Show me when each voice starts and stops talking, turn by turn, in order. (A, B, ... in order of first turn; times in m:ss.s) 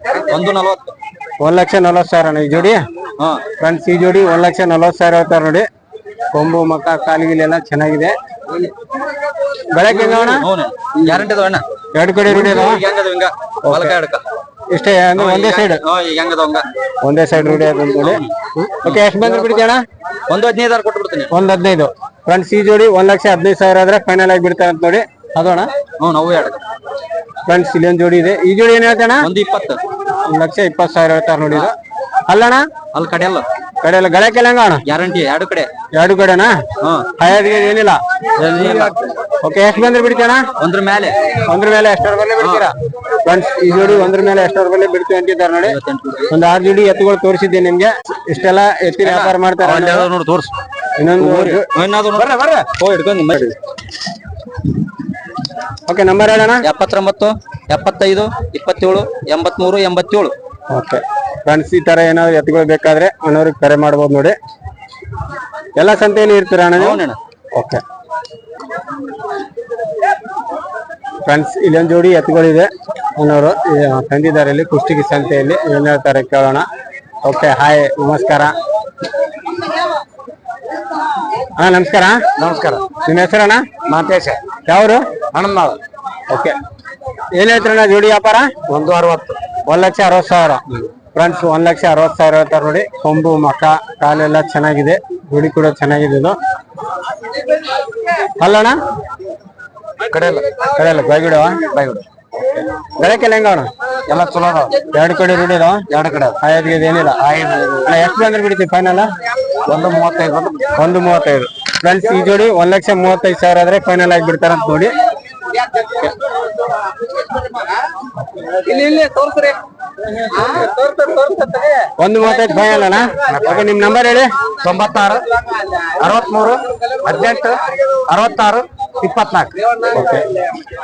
0:00.1-0:00.9 A
0:01.4-0:02.8 B
0:03.6-0:05.6 B
0:06.3-0:08.2 B
0:09.7-0:10.4 B
0:09.9-0:11.6 A
0:11.9-0:12.8 B
0:12.3-0:14.2 A
0:13.6-0:14.0 B
0:14.7-0:15.8 B
0:15.2-0:16.6 A
0:17.0-0:19.8 B
0:18.0-0:18.3 A
0:18.8-0:19.6 A
0:20.3-0:21.3 A
0:21.3-0:25.7 B
0:26.0-0:26.6 A
0:27.4-0:29.3 B
0:29.2-0:29.8 A
0:30.3-0:31.7 B
0:32.3-0:32.7 B
0:32.9-0:33.4 A
0:33.8-0:34.8 B
0:34.8-0:35.7 A
0:36.0-0:36.6 B
0:37.2-0:38.0 B
0:38.4-0:39.0 A
0:39.4-0:40.5 B
0:40.6-0:41.2 A
0:41.4-0:45.8 B
0:42.4-0:42.7 A
0:43.7-0:44.0 A
0:45.7-0:46.3 A
0:46.3-0:50.1 B
0:49.0-0:50.5 A
0:51.0-0:51.7 B
0:51.2-0:53.5 A
0:55.9-0:56.6 B
0:56.6-1:00.3 A
1:00.7-1:04.3 B
1:05.8-1:07.0 B
1:06.8-1:07.2 A
1:07.5-1:07.8 B
1:11.2-1:16.6 B
1:17.2-1:18.5 B
1:21.6-1:22.2 B
1:23.0-1:23.6 B
1:24.7-1:25.0 B
1:26.3-1:26.5 B
1:27.3-1:28.6 B
1:29.6-1:36.4 B
1:38.4-1:38.8 B
1:40.7-1:41.6 B
1:42.4-1:43.7 B
1:44.1-1:44.7 A
1:44.9-1:45.8 B
1:45.9-1:46.3 C
1:46.4-1:47.2 B
1:47.3-1:47.8 C
1:47.8-1:49.1 B
1:49.7-1:50.6 C
1:50.7-1:54.9 B
1:55.9-1:56.1 B
1:58.7-1:59.5 A
2:00.4-2:01.6 A
2:02.0-2:04.3 B
2:07.1-2:07.4 C
2:08.1-2:08.4 C
2:09.0-2:09.4 C
2:09.8-2:10.3 B